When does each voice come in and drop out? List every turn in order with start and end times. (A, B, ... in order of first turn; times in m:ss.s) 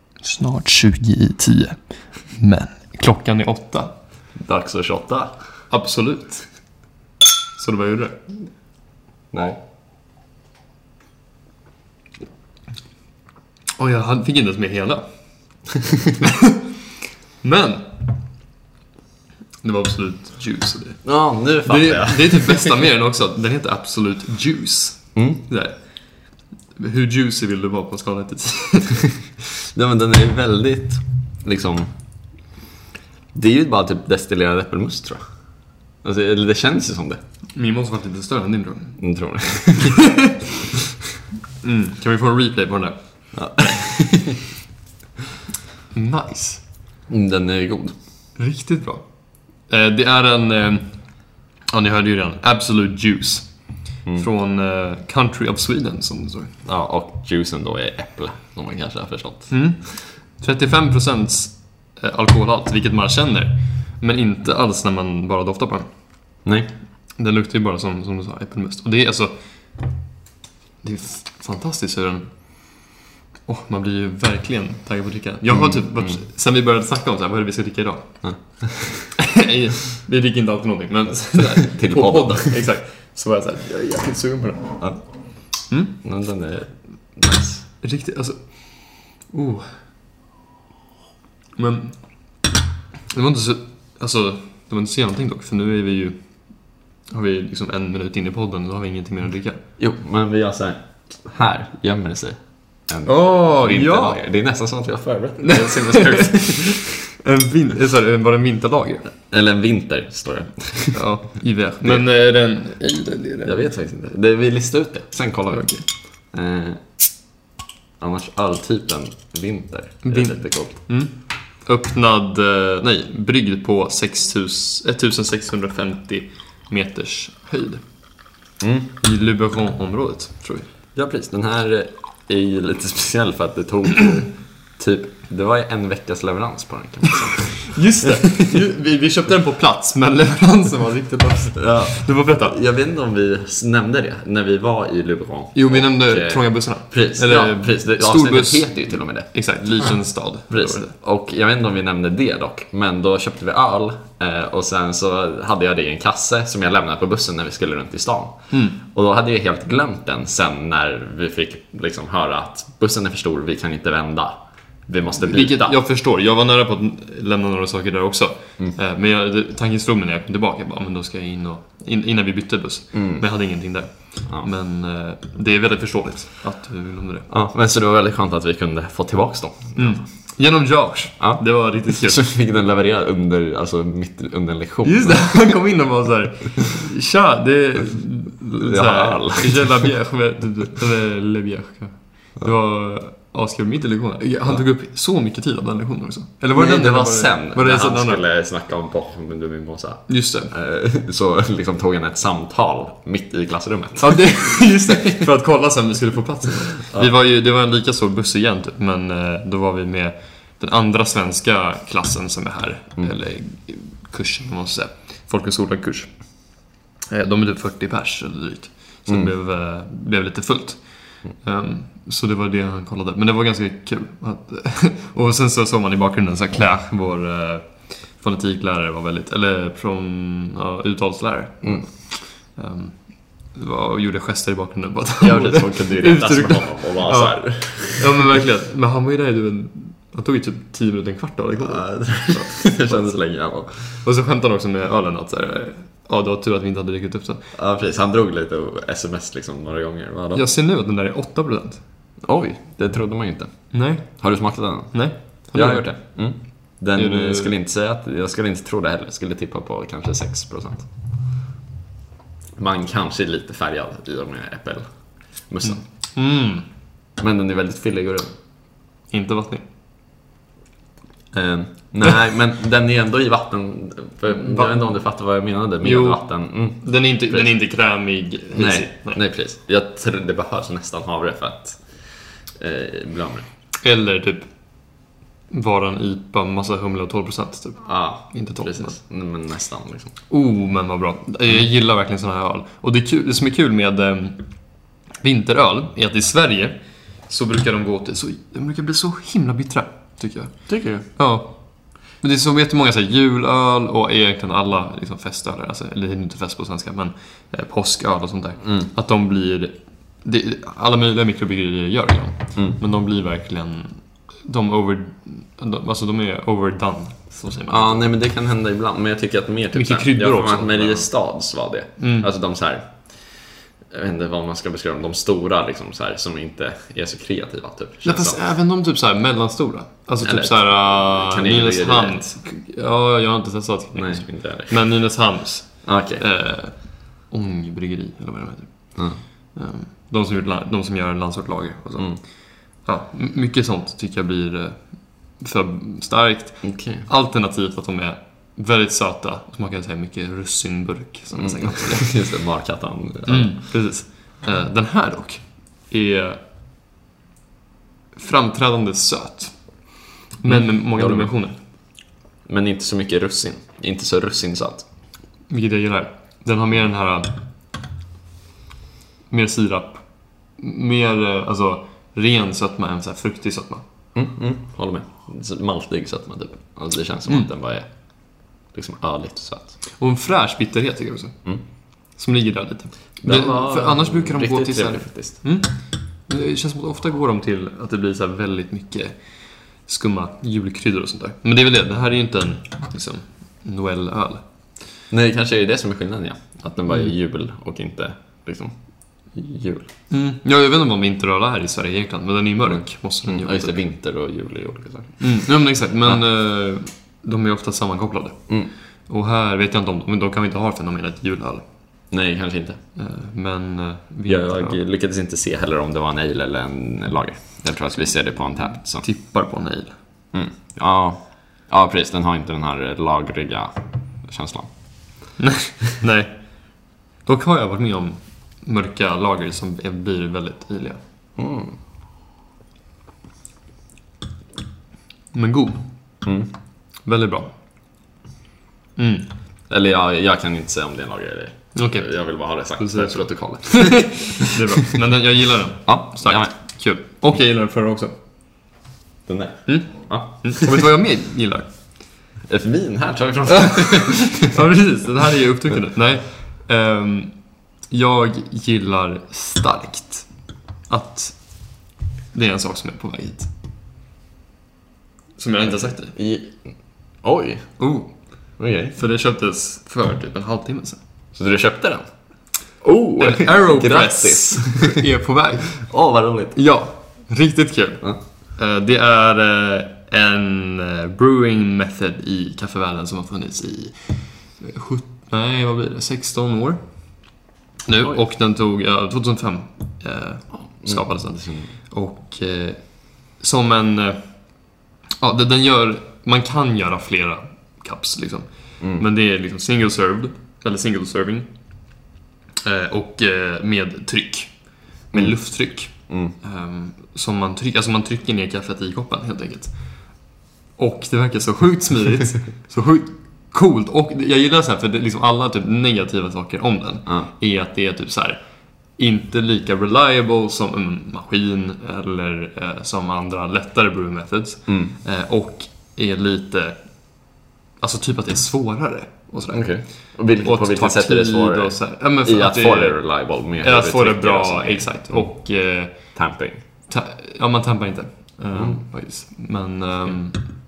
0:00.2-0:03.9 A
0:04.3-0:05.4 B
0:05.7-0:06.8 A
0:07.6-0:08.2 A
0:09.3-0:09.6 B
0:13.8-0:15.6 A
0:17.4-0:17.9 A
0:19.6-0:29.1 A
0:21.0-0:22.7 B
0:25.1-0:25.4 B
0:29.7-0:32.4 B
0:33.3-0:37.2 B
0:37.5-0:39.8 A
0:39.0-0:40.1 B
0:41.6-0:44.4 A
0:43.3-0:44.4 B
0:45.9-0:46.7 A
0:47.1-0:48.0 B
0:48.3-0:56.6 A
0:56.6-0:59.8 B
0:59.5-1:06.4 A
1:06.4-1:06.7 B
1:07.2-1:10.0 A
1:10.8-1:18.6 A
1:15.5-1:16.2 B
1:18.2-1:19.2 B
1:19.3-1:25.1 A
1:21.4-1:22.7 B
1:25.7-1:26.0 A
1:26.0-1:27.7 B
1:27.8-1:29.9 A
1:31.6-1:32.4 A
1:33.1-1:39.6 A
1:39.8-1:46.9 B
1:43.0-1:44.2 A
1:45.4-1:49.1 A
1:49.3-1:51.2 B
1:50.9-1:53.7 A
1:51.8-1:52.1 B
1:53.4-1:57.1 B
1:55.5-1:55.8 A
1:58.0-2:00.8 B
2:00.0-2:07.9 A
2:08.6-2:08.9 B
2:09.0-2:10.7 A
2:10.9-2:18.2 B
2:17.7-2:22.6 A
2:21.5-2:45.7 B
2:25.5-2:30.9 A
2:38.5-2:38.8 A
2:45.2-2:57.3 A
2:52.9-2:53.2 B
2:57.3-3:00.3 B
2:59.8-3:02.2 A
3:01.2-3:05.5 B
3:04.8-3:18.2 A
3:08.6-3:09.9 B
3:16.5-3:25.2 B
3:20.1-3:20.5 A
3:24.0-4:03.2 A
3:39.0-3:39.3 B
3:51.6-3:51.9 B
3:55.2-3:58.1 B
4:01.6-4:04.0 B
4:03.9-4:07.5 A
4:07.5-4:10.4 B
4:10.3-4:11.8 A
4:12.2-4:20.9 B
4:13.7-4:17.5 A
4:22.6-4:25.8 B
4:25.6-4:26.6 A
4:27.2-4:28.3 B
4:29.1-4:29.7 A
4:31.3-4:37.6 B
4:34.3-4:35.0 A
4:35.8-4:39.2 A
4:38.5-4:43.5 B
4:43.8-4:49.0 A
4:47.8-4:50.1 B
4:50.3-5:18.1 A
5:00.7-5:01.1 B
5:17.7-5:28.4 B
5:19.7-5:21.1 A
5:22.0-5:22.3 A
5:28.0-5:52.2 A
5:30.2-5:32.3 B
5:33.9-5:35.1 B
5:35.8-5:36.2 B
5:39.0-5:39.2 B
5:42.0-5:42.2 B
5:46.6-5:47.0 B
5:51.3-5:53.8 B
5:53.2-5:56.4 A
5:58.1-6:01.6 A
6:00.4-6:01.7 B
6:02.4-6:04.9 B
6:05.5-6:07.4 A
6:09.3-6:13.8 A
6:14.1-6:19.8 B
6:19.9-6:34.4 A
6:23.2-6:25.4 B
6:35.1-6:39.9 B
6:40.1-6:43.8 A
6:42.6-6:46.2 B
6:45.2-6:52.0 A
6:52.1-6:52.8 B
6:53.0-6:54.8 A
6:54.3-6:59.1 B
6:58.6-7:00.0 A
7:00.3-7:05.3 B
7:05.4-7:11.0 A
7:11.4-7:11.8 B
7:15.3-7:16.2 A
7:16.2-7:16.5 B
7:17.0-7:17.6 A
7:19.0-7:19.3 A
7:19.7-7:24.4 B
7:21.7-7:28.1 A
7:25.8-7:26.8 B
7:29.2-7:30.7 B
7:29.6-7:32.0 A
7:32.4-7:34.4 B
7:33.6-7:43.5 A
7:45.4-7:46.1 A
7:45.6-7:47.9 B
7:47.8-7:51.0 A
7:48.6-7:49.0 B
7:51.3-7:55.0 B
7:53.2-7:56.0 A
7:55.8-7:56.6 B
7:56.5-8:22.0 A
8:10.5-8:11.7 B
8:18.8-8:19.0 B
8:22.6-8:56.2 A
8:25.1-8:26.3 B
8:44.7-8:45.0 B
8:49.5-8:56.6 B
8:56.9-9:00.4 A
8:58.5-8:58.8 B